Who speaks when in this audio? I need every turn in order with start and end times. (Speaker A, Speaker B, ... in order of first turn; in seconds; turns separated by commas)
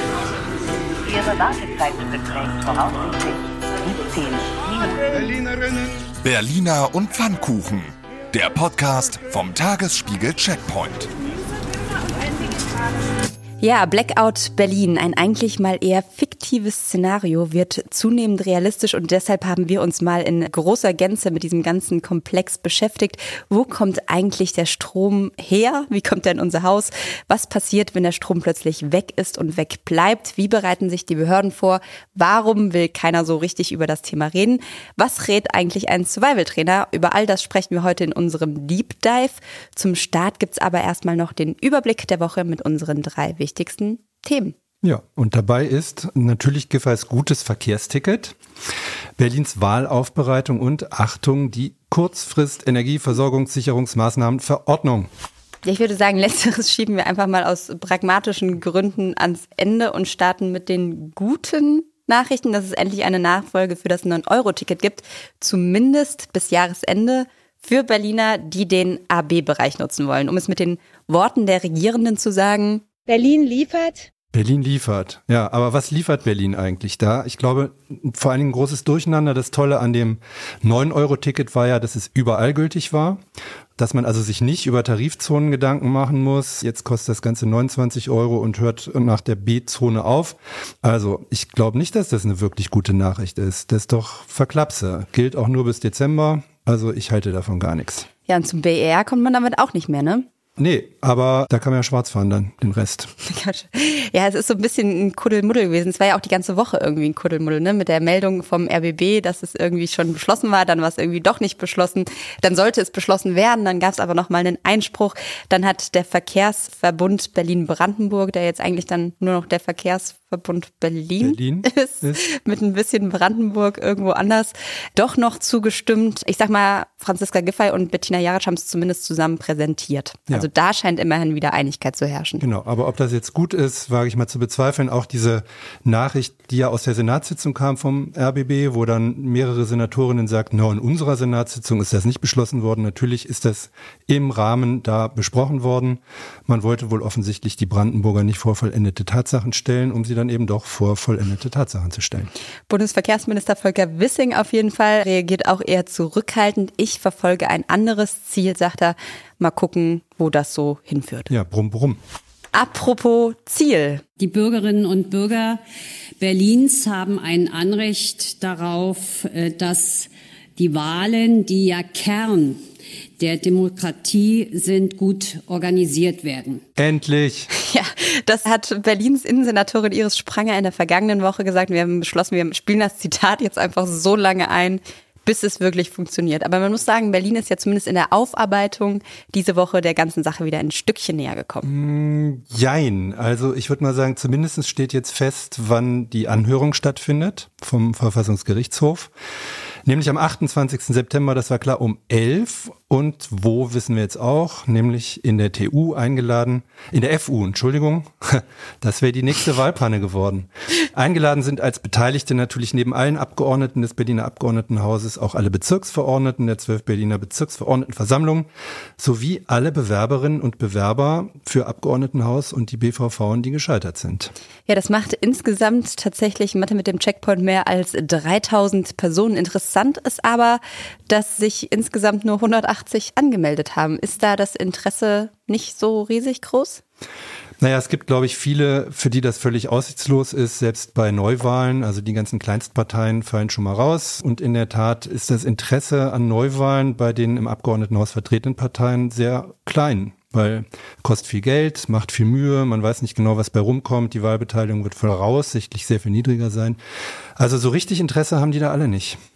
Speaker A: 1.0-5.4, Speaker B: 6.2-11.0, Speaker C: 13.6-44.5, Speaker D: 44.8-48.4, Speaker D: 49.2-55.1, Speaker C: 55.6-72.9, Speaker A: 73.1-73.6, Speaker D: 74.3-83.2, Speaker D: 83.8-98.1, Speaker C: 98.3-100.3, Speaker D: 100.6-103.1, Speaker C: 103.2-132.4, Speaker D: 121.2-122.2, Speaker D: 132.4-152.3, Speaker C: 152.7-161.3, Speaker D: 161.3-162.0, Speaker C: 162.5-164.0, Speaker E: 164.2-165.6, Speaker E: 166.2-172.6, Speaker E: 173.2-176.6, Speaker D: 176.8-177.5, Speaker C: 177.5-191.7, Speaker D: 191.6-199.1, Speaker D: 199.8-224.3, Speaker C: 224.7-236.8, Speaker D: 237.6-256.8, Speaker D: 257.4-259.2